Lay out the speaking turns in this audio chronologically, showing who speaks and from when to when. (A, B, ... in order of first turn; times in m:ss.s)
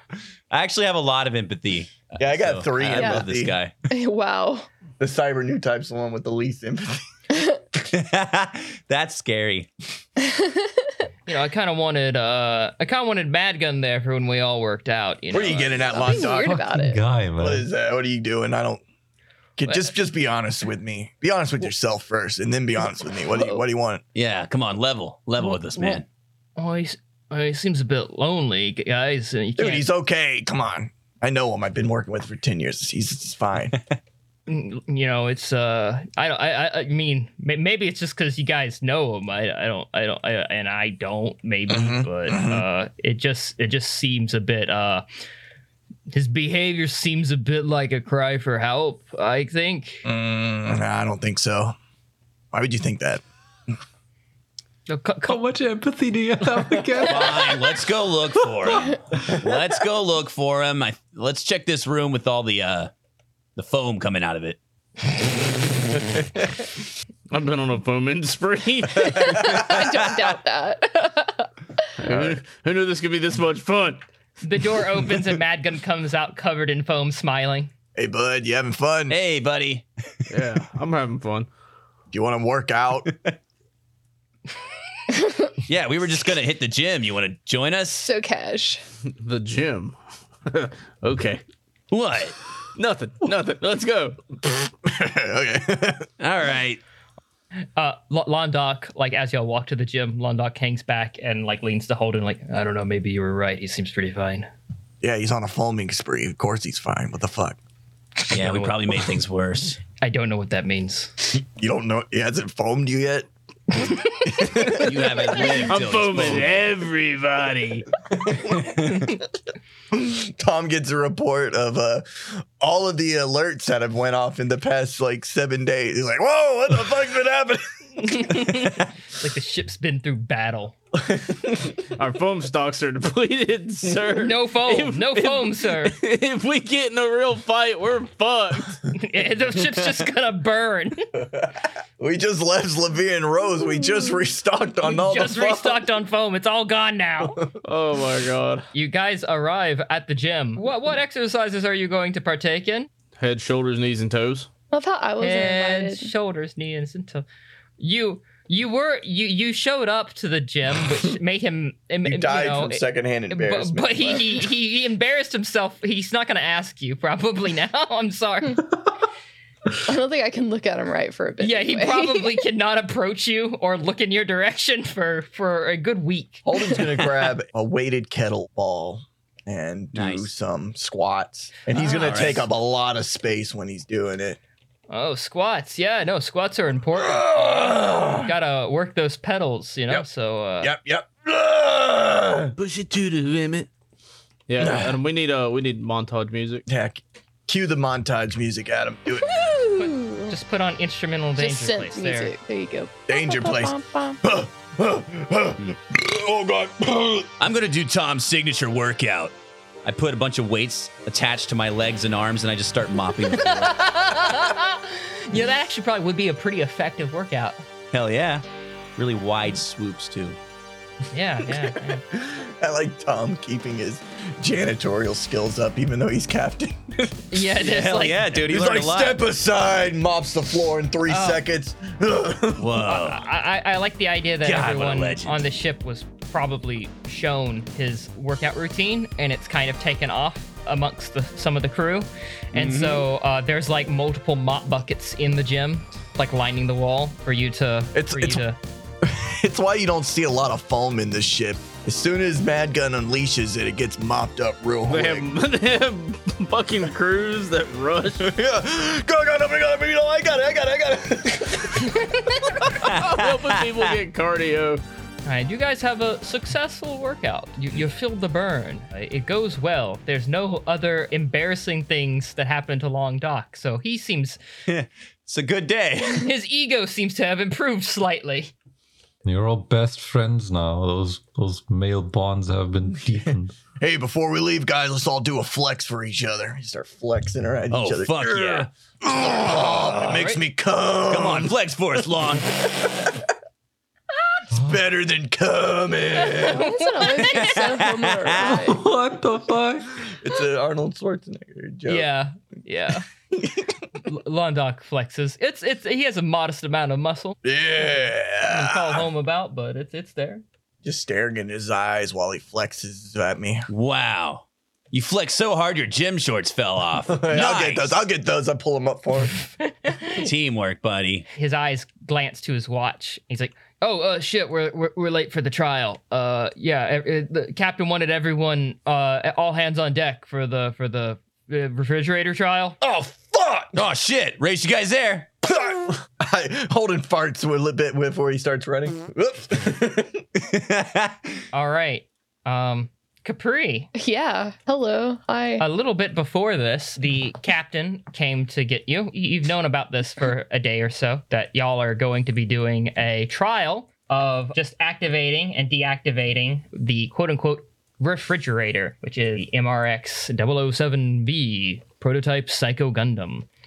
0:00.5-0:03.7 A
0:02.2-0:03.5 B
0:02.9-0:03.2 C
0:03.9-0:04.7 C
0:05.0-0:07.0 B
0:07.3-0:07.6 C
0:07.9-0:09.7 A
0:10.2-0:10.7 C
0:11.3-0:16.2 D
0:15.3-0:16.6 B
0:15.9-0:17.0 C
0:16.2-0:17.7 E
0:17.4-0:18.8 B
0:19.6-0:24.0 B
0:19.6-0:19.9 D
0:23.3-0:23.6 C
0:24.1-0:26.0 A
0:26.6-0:29.9 D
0:29.6-0:33.8 B
0:34.5-0:45.0 D
0:41.7-0:42.6 B
0:46.1-0:50.0 D
0:50.0-0:51.7 B
0:52.5-0:53.2 B
0:54.9-0:55.4 D
0:55.2-0:57.6 E
0:57.0-1:02.9 A
1:03.6-1:04.6 A
1:07.3-1:09.4 F
1:09.2-1:11.5 C
1:12.0-1:14.0 F
1:14.4-1:17.7 D
1:18.0-1:19.2 B
1:19.1-1:20.2 A
1:20.3-1:21.5 F
1:22.1-1:23.1 B
1:25.2-1:25.5 C
1:25.7-1:28.1 A
1:27.9-1:28.8 C
1:29.2-1:31.4 F
1:31.9-1:32.4 A
1:32.8-1:34.2 F
1:34.8-1:36.1 B
1:36.2-1:36.8 A
1:37.8-1:44.5 D
1:45.0-1:47.6 B
1:48.3-1:49.8 A
1:48.3-1:48.8 D
1:50.0-1:51.1 D
1:51.3-1:54.9 B
1:54.7-1:56.6 A
1:55.7-1:57.9 F
1:58.2-1:58.7 B
1:59.9-2:08.7 B
2:08.0-2:10.7 D
2:11.1-2:11.6 B
2:12.0-2:18.8 F
2:14.2-2:16.0 D
2:18.9-2:21.0 D
2:21.2-2:25.8 B
2:24.8-2:27.4 D
2:27.6-2:28.7 F
2:28.7-2:32.9 D
2:33.2-2:34.5 F
2:34.7-2:36.1 C
2:35.2-2:37.2 D
2:37.8-2:48.6 D
2:42.0-2:44.4 B
2:49.8-2:52.4 C
2:51.4-2:56.5 D
2:56.4-3:04.4 B
2:59.9-3:00.3 A
3:01.8-3:02.2 D
3:01.9-3:02.5 A
3:04.9-3:10.7 D
3:07.0-3:08.2 B
3:10.6-3:12.5 B
3:12.6-3:13.7 F
3:14.5-3:16.6 F
3:14.6-3:15.0 B
3:16.7-3:19.5 B
3:19.2-3:20.4 C
3:19.8-3:22.3 D
3:21.4-3:24.2 C
3:23.1-3:27.3 B
3:27.4-3:33.8 A
3:33.5-3:37.6 D
3:37.9-3:38.4 A
3:39.0-3:40.4 A
3:41.1-3:42.0 D
3:42.1-3:47.1 B
3:47.3-3:48.3 D
3:47.6-3:49.2 A
3:48.4-3:52.7 B
3:51.1-3:51.4 D
3:52.6-3:53.2 A
3:52.8-4:08.6 D
3:54.4-3:55.4 A
4:02.5-4:03.0 A
4:07.9-4:08.4 B
4:09.0-4:15.3 B
4:14.9-4:18.3 F
4:18.2-4:21.9 B
4:21.8-4:22.5 D
4:22.8-4:23.9 A
4:22.9-4:24.8 F
4:25.2-4:34.4 D
4:34.7-4:36.3 A
4:36.1-4:38.5 D
4:39.2-4:43.6 E
4:43.8-4:51.5 B
4:47.7-4:48.7 A
4:49.8-4:50.4 D
4:51.1-4:52.5 A
4:54.5-4:54.8 E
4:54.5-4:56.7 B
4:56.1-4:57.7 D
4:56.4-4:58.8 C
4:57.6-4:58.5 A
4:58.4-5:00.1 E
5:00.1-5:02.1 B
5:01.9-5:03.0 D
5:03.3-5:03.7 B
5:04.0-5:07.4 D
5:07.4-5:09.1 B
5:08.4-5:10.4 D
5:10.8-5:13.6 B
5:13.7-5:18.0 A
5:17.1-5:19.4 B
5:19.7-5:20.2 D
5:20.2-5:21.3 A
5:21.3-5:32.8 D
5:32.8-5:33.8 B
5:33.7-5:35.3 A
5:35.4-5:40.2 B
5:40.4-5:41.2 A
5:41.5-5:43.9 D
5:43.9-5:45.6 C
5:45.6-6:03.5 D